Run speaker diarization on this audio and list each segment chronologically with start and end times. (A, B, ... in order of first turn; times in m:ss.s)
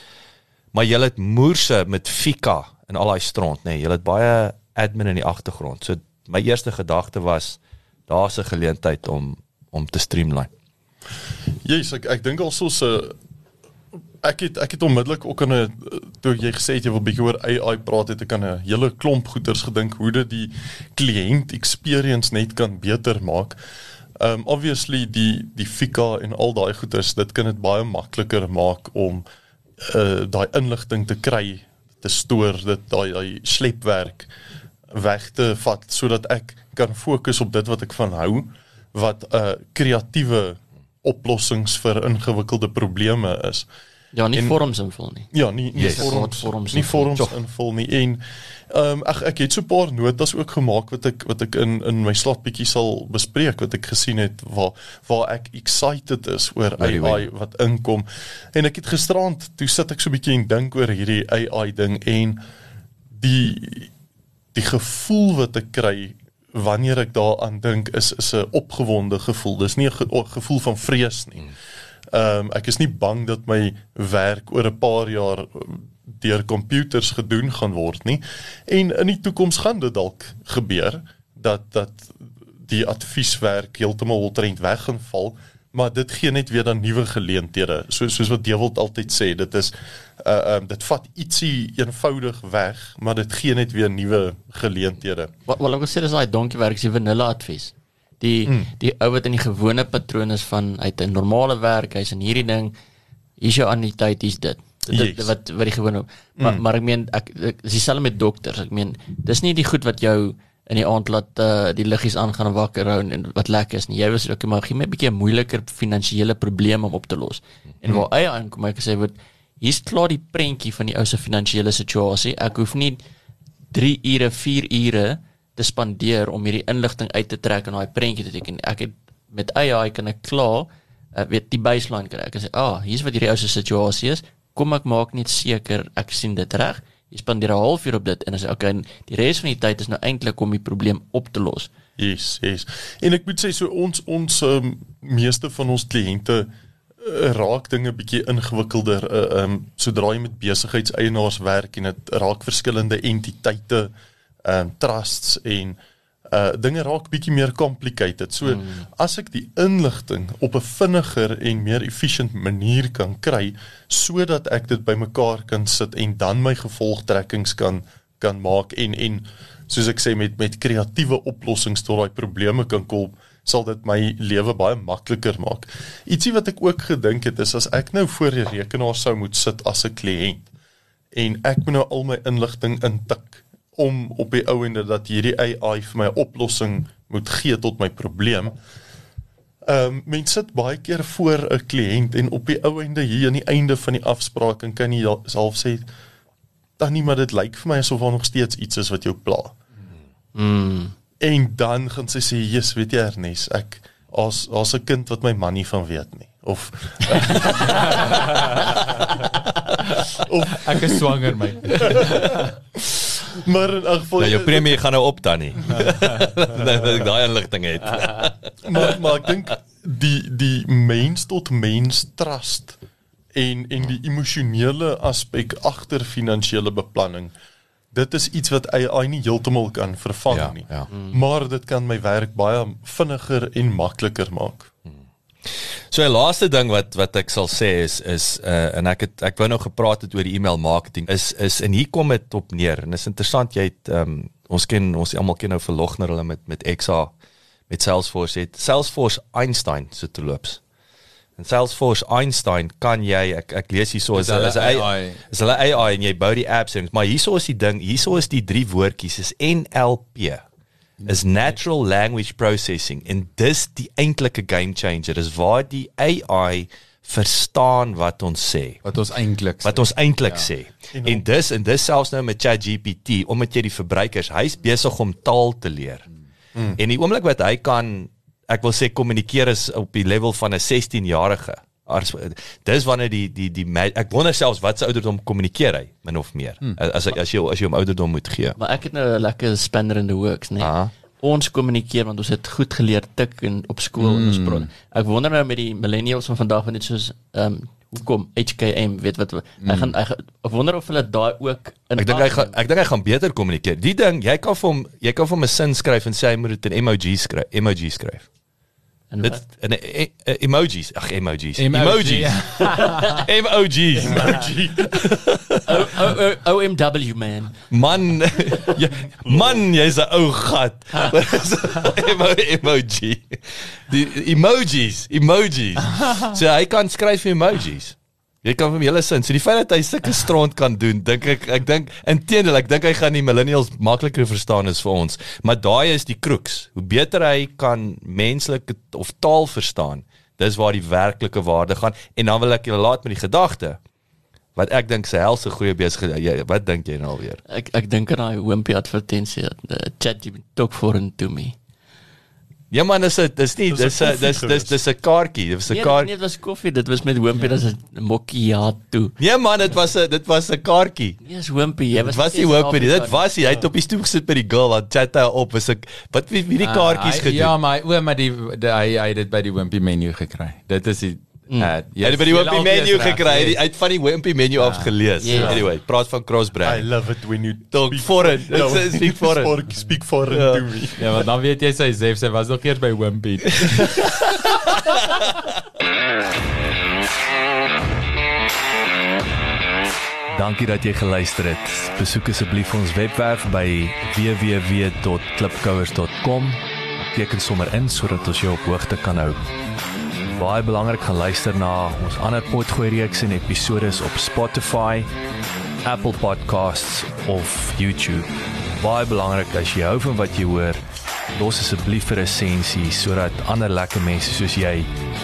0:00.7-0:10.5 A
0:11.6-0:13.2 B
0:14.2-0:23.6 B
0:24.2-0:29.2 B
0:29.8-0:34.3 B
0:34.9-0:43.7 B
0:44.1-0:47.1 C
0:45.3-1:02.4 B
0:45.7-0:46.2 A
0:56.8-0:57.3 A
1:03.2-1:03.9 B
1:04.5-1:11.5 B
1:12.1-1:35.3 B
1:35.5-1:42.7 C
1:43.4-2:03.0 C
1:44.9-1:45.3 B
2:03.7-2:21.7 C
2:22.0-2:33.9 B
2:34.4-3:00.5 B
2:38.5-2:38.8 C
3:01.1-3:08.5 B
3:09.6-3:15.9 B
3:16.8-3:19.6 B
3:20.3-3:20.9 C
3:21.2-3:28.9 B
3:30.1-3:31.0 B
3:30.6-3:32.5 D
3:31.7-3:34.8 B
3:34.2-3:38.8 A
3:38.6-3:42.8 B
3:43.3-3:47.3 B
3:47.9-3:54.7 B
3:50.3-3:50.9 A
3:55.9-4:07.1 A
4:07.7-4:10.6 A
4:11.4-4:20.4 A
4:14.1-4:15.2 D
4:21.0-4:28.8 A
4:28.8-4:30.5 D
4:29.6-4:36.1 A
4:30.9-4:31.2 B
4:36.8-4:48.6 A
4:48.6-5:02.5 C
4:50.6-4:50.9 A
4:54.0-4:54.7 D
4:59.6-4:59.9 D
5:02.0-5:08.3 A
5:09.1-5:09.4 C
5:09.2-5:15.9 A
5:11.6-5:13.2 D
5:14.0-5:14.9 B
5:15.6-5:17.6 C
5:17.7-5:43.8 A
5:19.1-5:19.6 B
5:44.6-5:47.4 A
5:47.5-5:51.5 C
5:52.7-5:56.1 A
5:53.7-5:54.8 B
5:55.7-5:59.1 C
5:59.2-6:01.2 A
6:01.2-6:03.3 C
6:02.0-6:07.5 A
6:06.6-6:13.6 D
6:12.0-6:16.9 A
6:14.6-6:14.9 D
6:15.2-6:15.6 C
6:16.6-6:21.0 B
6:17.7-6:19.5 A
6:20.3-6:20.6 A
6:21.0-6:24.2 D
6:24.4-6:25.2 A
6:30.3-6:39.4 A
6:40.2-6:45.1 A
6:45.8-6:50.8 A
6:51.3-6:54.9 A